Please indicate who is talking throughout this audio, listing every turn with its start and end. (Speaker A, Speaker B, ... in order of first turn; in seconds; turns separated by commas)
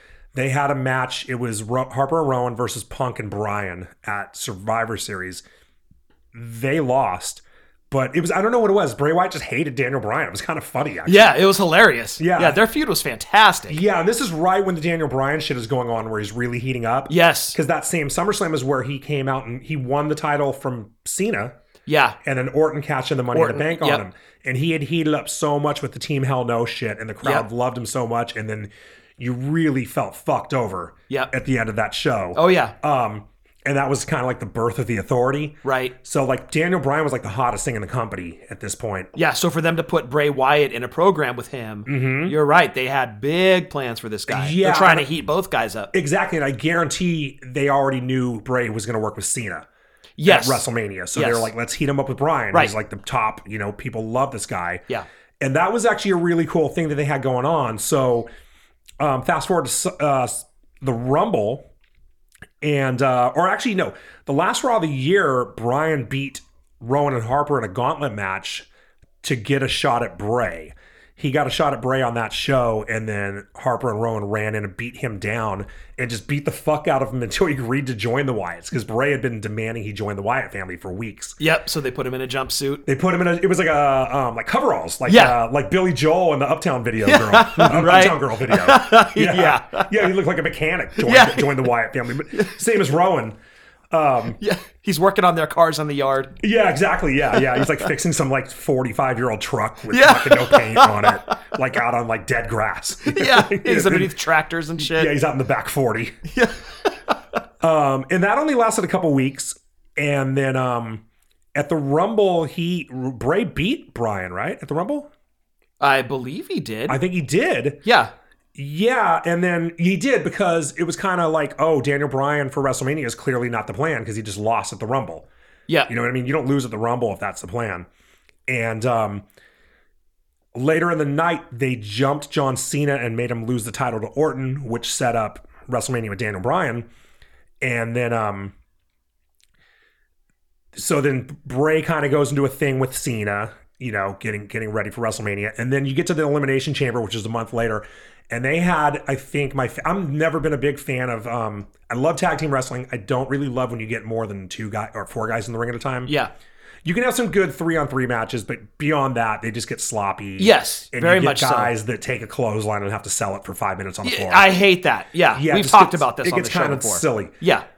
Speaker A: 0.3-5.4, Speaker A: 6.3-11.4, Speaker B: 11.1-13.8, Speaker A: 12.2-12.6, Speaker A: 13.7-21.5, Speaker B: 17.1-17.6, Speaker B: 21.9-22.2, Speaker A: 22.2-39.1, Speaker B: 23.3-24.0, Speaker B: 32.3-32.7, Speaker B: 35.6-35.9, Speaker B: 39.1-45.9, Speaker A: 41.9-42.3, Speaker A: 44.3-45.1, Speaker A: 45.9-49.6, Speaker B: 50.2-51.5, Speaker A: 50.2-54.8, Speaker A: 55.4-58.3, Speaker A: 59.0-61.6, Speaker A: 62.6-68.7, Speaker A: 69.2-81.4, Speaker B: 81.4-82.8, Speaker A: 82.8-93.3, Speaker B: 85.1-85.3, Speaker B: 87.0-90.1, Speaker B: 91.0-91.7, Speaker A: 93.9-94.4, Speaker B: 94.4-96.4, Speaker A: 96.4-104.1, Speaker B: 97.3-97.9, Speaker B: 99.9-101.3, Speaker B: 103.0-105.1, Speaker A: 104.8-106.2, Speaker B: 106.3-106.6, Speaker A: 107.6-111.0, Speaker A: 111.5-115.1, Speaker B: 115.8-117.0, Speaker A: 116.9-117.8, Speaker B: 117.8-118.1, Speaker A: 118.5-125.2, Speaker A: 125.9-127.9, Speaker A: 128.5-129.2, Speaker A: 130.5-136.8, Speaker A: 137.6-138.5, Speaker A: 140.7-156.1, Speaker A: 156.8-164.5, Speaker B: 160.4-161.7, Speaker B: 164.0-167.6, Speaker A: 165.3-167.3